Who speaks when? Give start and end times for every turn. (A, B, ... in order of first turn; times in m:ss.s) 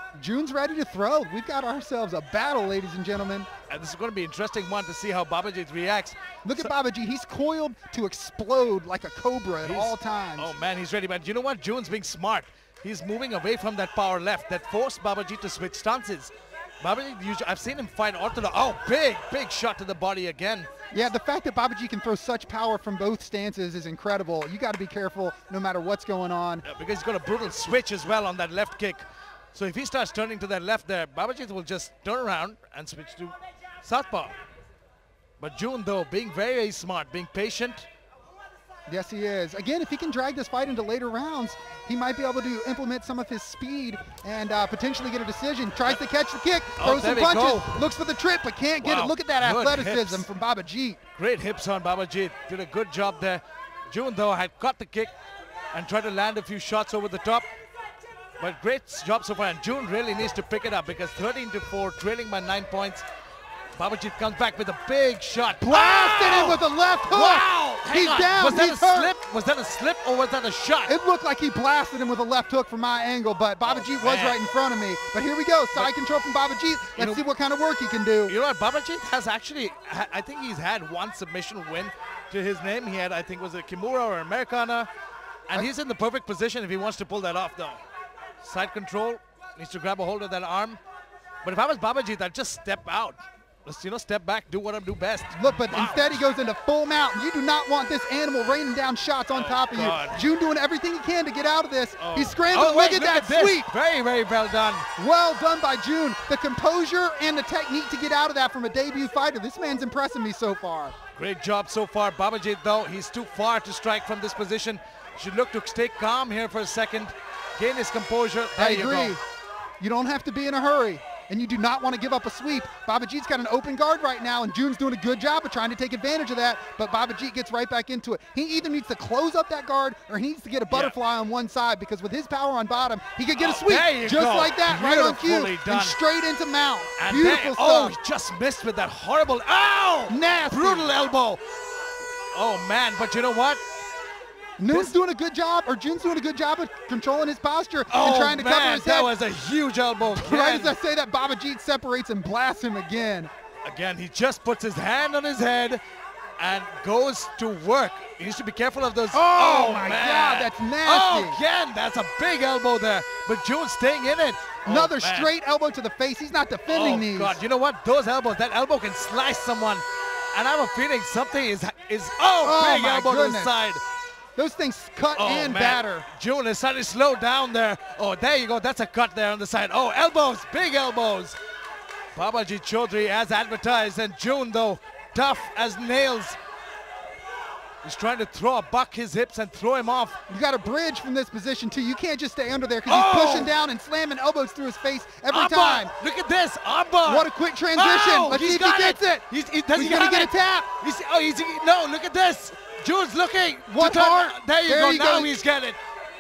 0:00.2-0:03.5 A
0:03.7-0:06.7 B
0:06.4-0:10.5 A
0:09.6-0:20.7 B
0:20.9-0:26.6 A
0:26.6-0:34.3 B
0:35.4-0:37.9 B
0:38.9-0:51.0 A
0:46.8-0:47.7 B
0:48.8-0:50.3 B
0:51.2-0:55.1 B
0:55.7-0:57.5 B
0:58.4-1:03.0 B
1:03.8-1:10.9 B
1:05.6-1:09.1 A
1:10.8-1:18.4 A
1:13.6-1:14.4 B
1:17.0-1:17.2 B
1:18.3-1:24.9 B
1:25.5-1:27.8 B
1:28.4-1:30.8 B
1:31.4-1:36.2 B
1:35.3-1:43.7 A
1:39.3-1:40.2 B
1:42.0-1:44.8 B
1:45.0-1:50.9 A
1:51.2-1:59.2 B
1:58.6-1:59.2 A
1:59.8-2:18.0 A
2:10.7-2:10.9 B
2:13.4-2:16.0 B
2:17.0-2:21.4 B
2:20.1-2:20.9 A
2:22.3-2:23.6 B
2:24.6-2:29.1 A
2:27.9-2:30.7 B
2:30.0-2:33.3 A
2:33.6-2:35.8 B
2:36.4-2:45.3 B
2:39.1-2:41.4 A
2:44.6-2:47.4 A
2:46.7-2:53.8 B
2:52.4-2:53.5 A
2:54.4-2:56.0 A
2:55.2-3:01.4 B
3:02.1-3:06.4 B
3:07.8-3:10.2 B
3:10.3-3:15.9 A
3:12.8-3:13.5 B
3:15.3-3:25.8 B
3:17.0-3:20.7 A
3:23.7-3:25.4 A